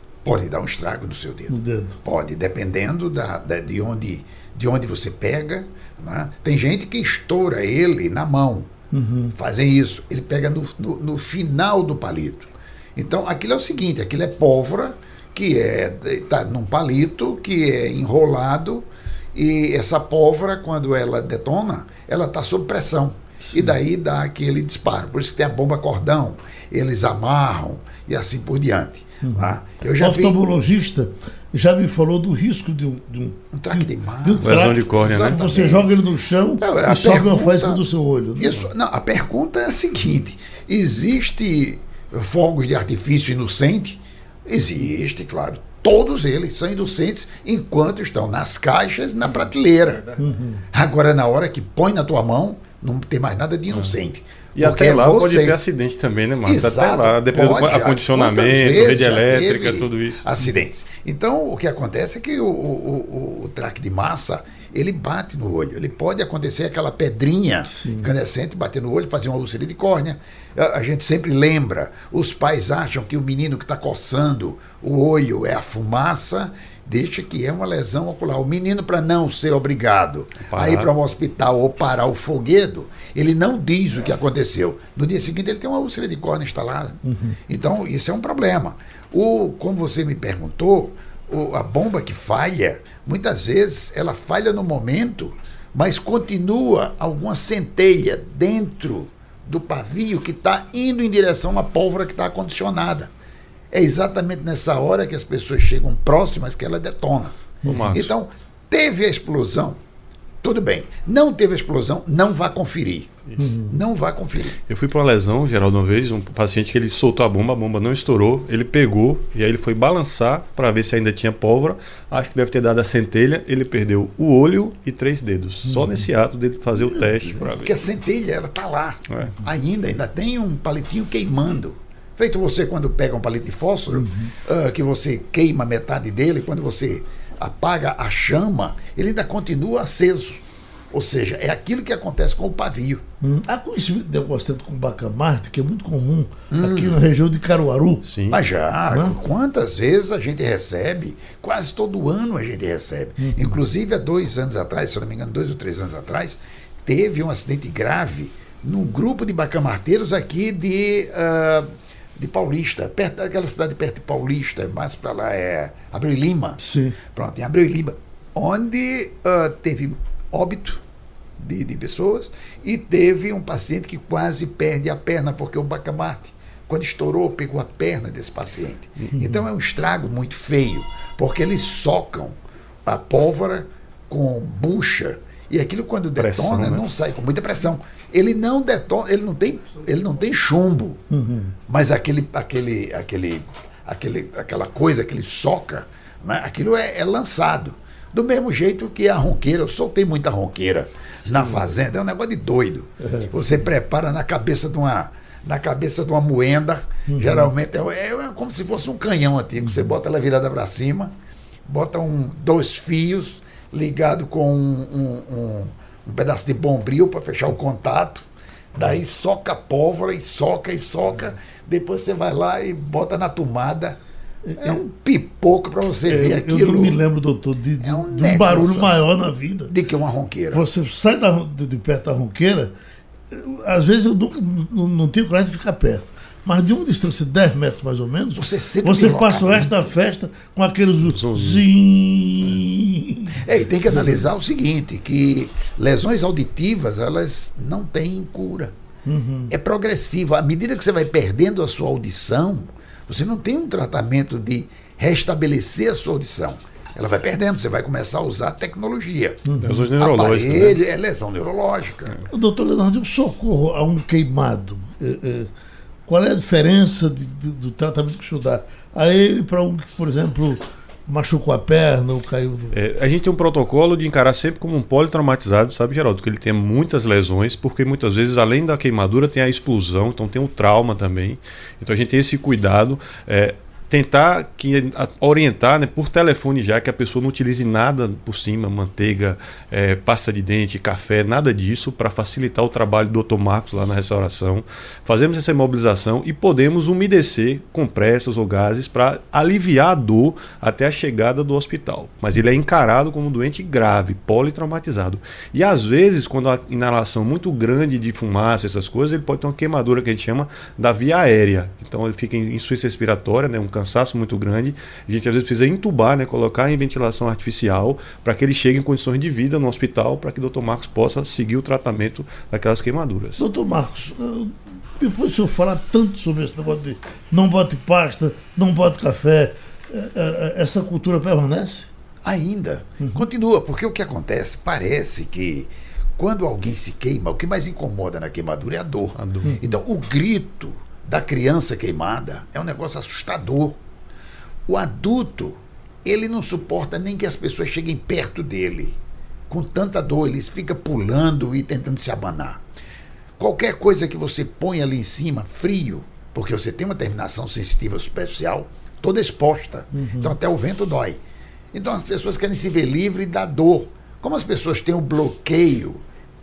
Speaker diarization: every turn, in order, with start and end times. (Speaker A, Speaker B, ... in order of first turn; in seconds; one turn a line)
Speaker A: 0.2-8.7
Speaker B: 1.5-2.0
Speaker B: 8.9-9.3
Speaker A: 9.3-30.4
Speaker B: 29.2-38.6
Speaker A: 33.5-35.9
Speaker C: 34.4-35.4
Speaker A: 36.6-37.8
Speaker A: 38.4-50.0
Speaker B: 50.2-50.6
Speaker A: 50.7-55.6
Speaker C: 53.7-54.0
Speaker C: 54.5-60.2
Speaker A: 56.4-103.1
Speaker B: 67.7-68.1
Speaker C: 80.4-80.9
Speaker B: 87.0-87.4
Speaker A: 103.7-107.4
Speaker B: 107.6-108.0
Speaker C: 107.7-108.1
Speaker A: 107.9-109.8
Speaker A: 110.4-114.6
Speaker B: 113.4-113.8
Speaker C: 114.7-127.9
Speaker B: 125.7-126.1
Speaker A: 127.3-143.0
Speaker C: 129.1-129.3
Speaker B: 133.9-134.3
Speaker B: 143.2-148.1
Speaker A: 146.5-147.0
Speaker C: 148.1-148.4
Speaker A: 148.3-170.8
Speaker B: 148.9-149.2
Speaker B: 153.2-153.6
Speaker B: 166.6-167.0
Speaker A: 171.4-191.0
Speaker C: 186.2-186.9
Speaker B: 191.1-191.6
Speaker A: 191.7-211.1
Speaker B: 201.3-201.6
Speaker B: 203.0-203.3
Speaker B: 207.1-207.5
Speaker B: 209.7-209.9
Speaker A: 211.7-224.0
Speaker B: 224.4-224.8
Speaker A: 224.6-227.0
Speaker B: 226.1-229.7
Speaker A: 227.8-229.0
Speaker A: 229.7-230.6
Speaker B: 230.5-232.7
Speaker B: 233.3-244.3
Speaker A: 238.3-239.9
Speaker C: 241.0-241.7
Speaker A: 243.4-248.7
Speaker B: 249.1-249.5
Speaker A: 249.5-259.4
Speaker B: 259.4-259.9
Speaker C: 259.6-260.8
Speaker A: 260.0-262.2
Speaker B: 262.3-265.5
Speaker B: 266.1-272.7
Speaker C: 272.7-323.4
Speaker B: 323.4-331.9
Speaker A: 332.2-343.8
Speaker C: 339.1-339.5
Speaker B: 339.4-339.8
Speaker A: 344.6-349.0
Speaker A: 349.5-352.6
Speaker A: 353.4-361.2
Speaker B: 359.9-360.4
Speaker A: 361.7-366.0